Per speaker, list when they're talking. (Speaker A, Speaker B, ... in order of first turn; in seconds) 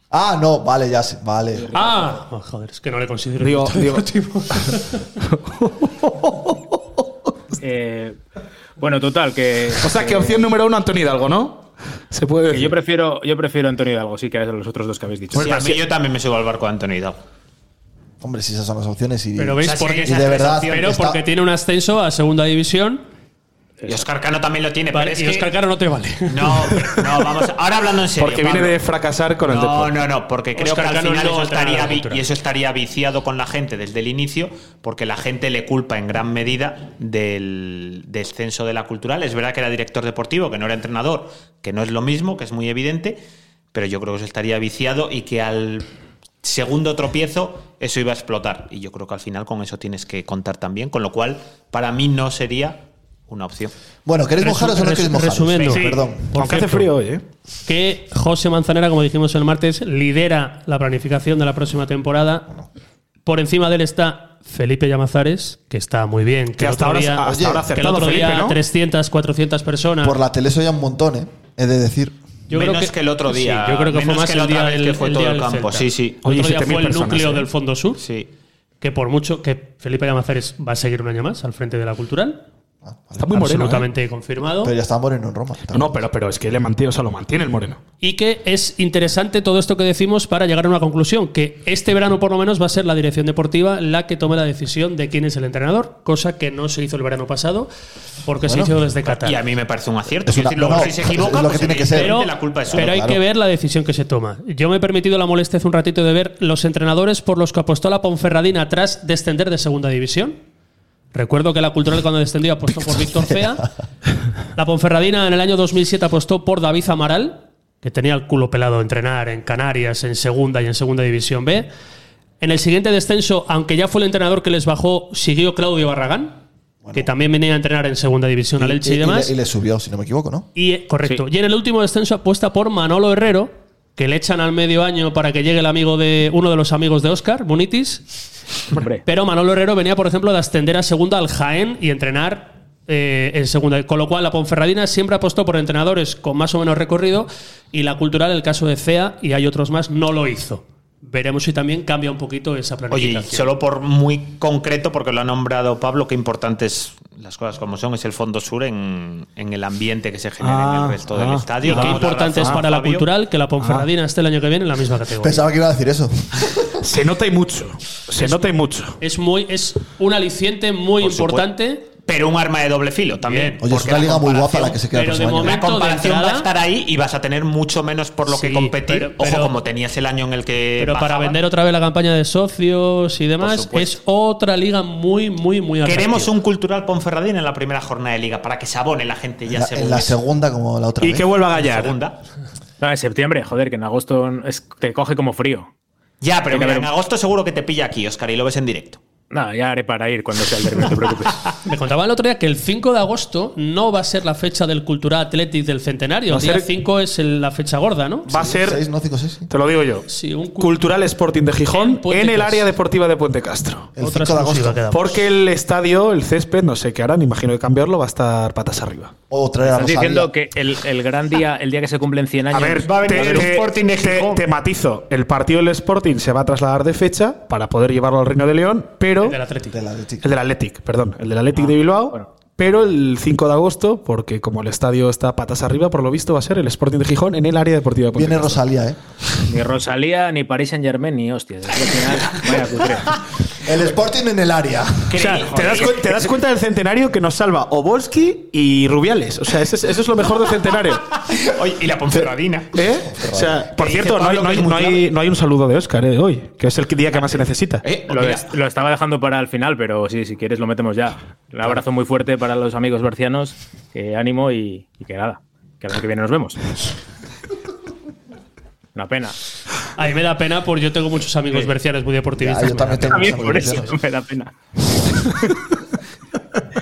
Speaker A: 0.1-1.7, 18.2-21.2, 54.0-56.3, 67.3-67.7, 70.0-72.2, 82.8-83.4, 84.6-86.0, 98.4-98.7, 100.2-103.2, 113.1-113.6, 126.8-127.1, 128.6-130.5, 165.2-166.7, 173.6-175.6, 189.5-191.3, 208.4-209.5, 213.9-214.8, 219.3-220.3, 229.7-230.2, 238.1-239.0, 243.6-245.2, 253.1-253.6, 272.4-273.9
Speaker B: 1.6-2.2, 7.6-8.2, 8.8-10.4, 12.5-15.5, 23.8-24.1, 138.7-139.0, 192.8-195.7, 196.5-196.9, 199.3-201.4, 219.6-223.5, 231.5-232.3, 239.5-243.1, 257.1-257.5, 258.0-266.6, 268.9-269.4, 273.1-274.5
Speaker C: 1.7-5.0, 19.4-23.0, 24.9-27.0, 30.6-32.2, 54.4-56.9, 57.6-62.5, 63.2-70.2, 72.5-78.0, 78.8-82.4, 83.3-84.7, 88.0-97.7, 98.2-99.4, 101.9-110.4, 111.1-113.7, 114.5-121.7, 122.4-126.4, 126.9-129.3, 130.6-138.1, 139.0-153.5, 161.6-165.4, 169.0-171.9, 173.2-173.6, 174.9-176.5, 178.3-179.5, 180.8-186.3, 201.6-208.4, 210.1-210.8, 211.7-212.7, 214.0-215.2, 229.2-229.8, 269.9-273.7
Speaker D: 3.4-4.1, 4.7-6.5, 9.8-12.7, 15.3-15.8, 28.2-30.0, 56.3-57.2, 66.6-68.6, 76.2-77.5, 83.2-83.9, 85.7-87.8, 160.4-162.6, 163.6-163.9, 166.8-169.0, 191.0-191.9, 206.3-206.7, 208.3-208.8, 209.5-210.1, 210.6-213.9, 214.9-219.1, 222.5-229.4, 230.2-238.6, 245.1-251.1, 252.1-257.9, 275.2-275.6
Speaker E: 15.3-17.2, 19.6-20.9, 23.9-25.5, 26.3-28.8, 29.4-43.2, 43.7-45.9, 46.4-53.7, 55.6-56.0, 72.5-76.2, 78.0-78.3, 99.0-102.9, 152.9-163.1, 171.0-171.5, 172.1-174.8, 175.4-181.4, 183.4-183.9, 185.8-190.2, 191.5-192.2, 196.2-199.0, 222.8-224.4, 245.1-246.2, 251.2-252.7, 253.8-255.0, 257.8-258.5